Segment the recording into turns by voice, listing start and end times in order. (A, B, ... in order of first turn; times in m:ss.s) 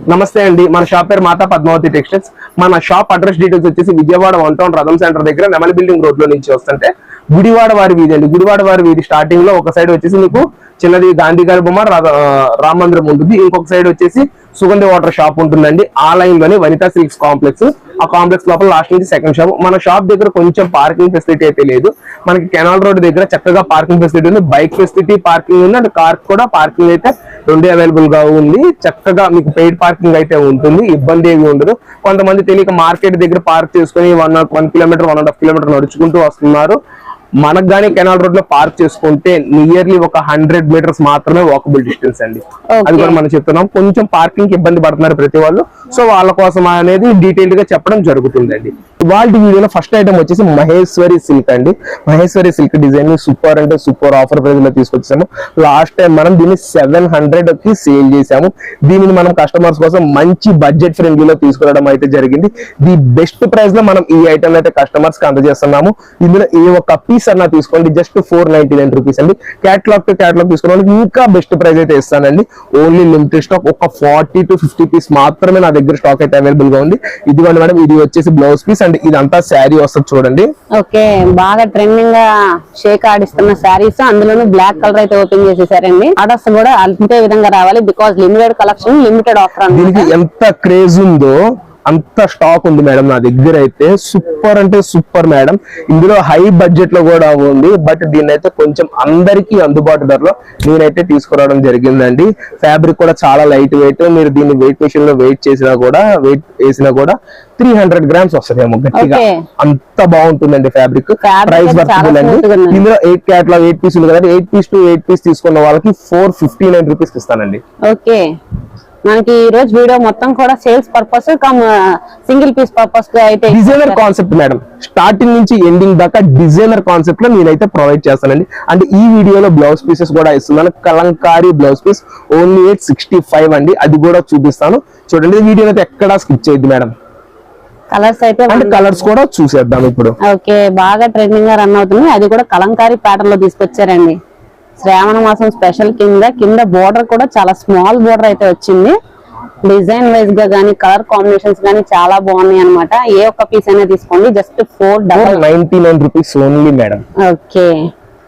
0:00.1-0:36.8 A
0:37.4-1:20.5 A
0:42.7-0:43.2 B
1:20.8-1:30.1 B
1:29.7-1:57.6 A
1:48.9-1:49.4 B
1:51.2-1:52.8 B
1:57.9-1:58.2 B
1:59.1-2:04.0 B
2:03.5-2:16.9 A
2:17.9-2:19.0 B
2:18.5-2:20.1 A
2:20.3-2:24.2 B
2:24.8-2:29.0 B
2:29.7-2:35.4 B
2:35.1-2:37.0 A
2:37.2-2:37.8 B